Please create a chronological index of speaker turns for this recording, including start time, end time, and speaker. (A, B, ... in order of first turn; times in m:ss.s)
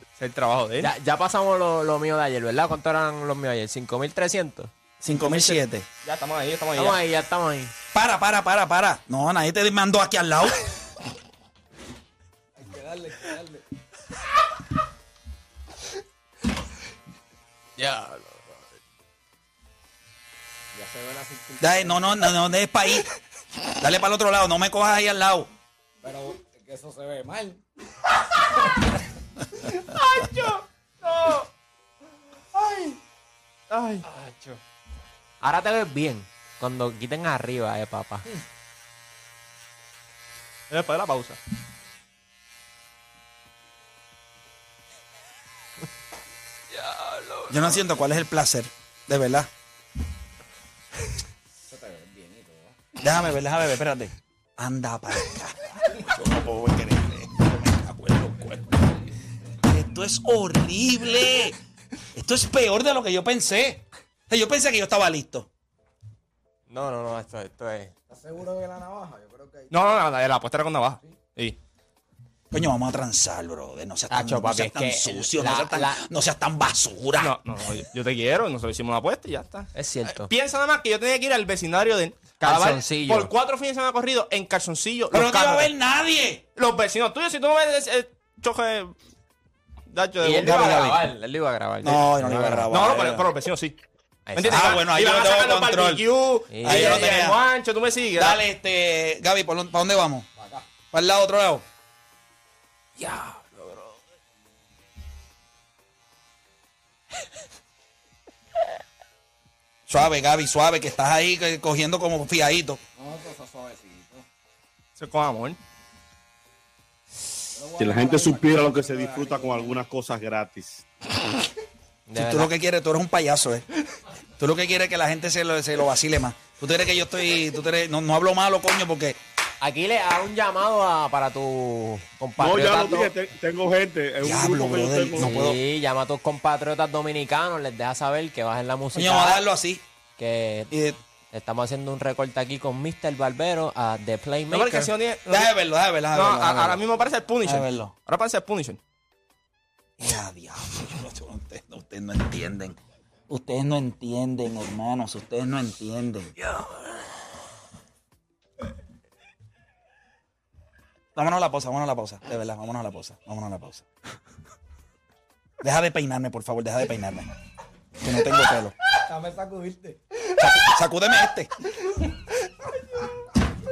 0:00.2-0:00.9 A
0:00.8-0:04.7 B
0:05.0-0:05.8 C
0:05.1-0:07.0 A
0:06.7-0:07.8 B
0:07.9-0:10.8 C
0:12.6-0:13.6 D
0:17.8-0:18.5 B
0:20.7-0:22.1 D
0:21.6-0:23.0 C
0:23.8-0:25.5 C
0:26.0-0:27.6 D
0:29.6-0:31.5 A
0:32.5-0:33.0 A
0:33.7-0:34.6 A
0:35.4-0:38.3 B
0:40.7-0:41.4 A
0:46.9-0:47.4 B
0:47.5-0:49.5 C
0:51.6-0:52.7 D
0:53.0-0:59.0 C
0:59.6-1:01.6 C
1:02.1-1:05.5 C
1:06.7-1:07.9 B
1:08.1-1:09.8 D
1:09.7-1:11.6 A
1:12.5-1:17.3 C
1:14.1-1:16.0 B
1:17.2-1:25.7 A
1:19.7-1:20.3 B
1:22.4-1:23.3 B
1:25.1-1:26.4 C
1:26.6-1:28.9 A
1:29.9-1:30.9 A
1:30.2-1:32.8 B
1:30.4-1:31.0 C
1:31.8-1:33.3 C
1:32.7-1:33.8 A
1:34.3-1:34.7 B
1:34.3-1:38.4 A
1:34.4-1:36.0 C
1:36.5-1:37.4 B
1:36.6-1:37.4 C
1:38.2-1:40.3 C
1:40.9-1:41.6 C
1:43.0-1:43.8 B
1:49.9-1:52.8 C
1:53.0-1:54.2 D
1:55.0-1:55.6 A
1:57.5-1:59.8 D
1:57.8-2:00.8 E
2:02.1-2:02.5 B
2:02.2-2:03.6 C
2:04.4-2:09.2 C
2:09.6-2:13.1 B
2:12.4-2:15.4 E
2:14.2-2:15.6 C
2:15.2-2:19.4 B
2:18.9-2:19.8 C
2:20.2-2:20.7 B
2:20.7-2:21.0 C
2:21.3-2:24.9 B
2:24.5-2:25.5 A
2:25.3-2:26.8 C
2:26.1-2:28.8 A
2:27.4-2:27.9 C
2:30.0-2:36.3 C
2:41.1-2:43.9 C
2:45.6-2:47.3 C
2:48.0-2:48.8 C
2:49.0-2:50.2 D
2:50.2-2:51.5 C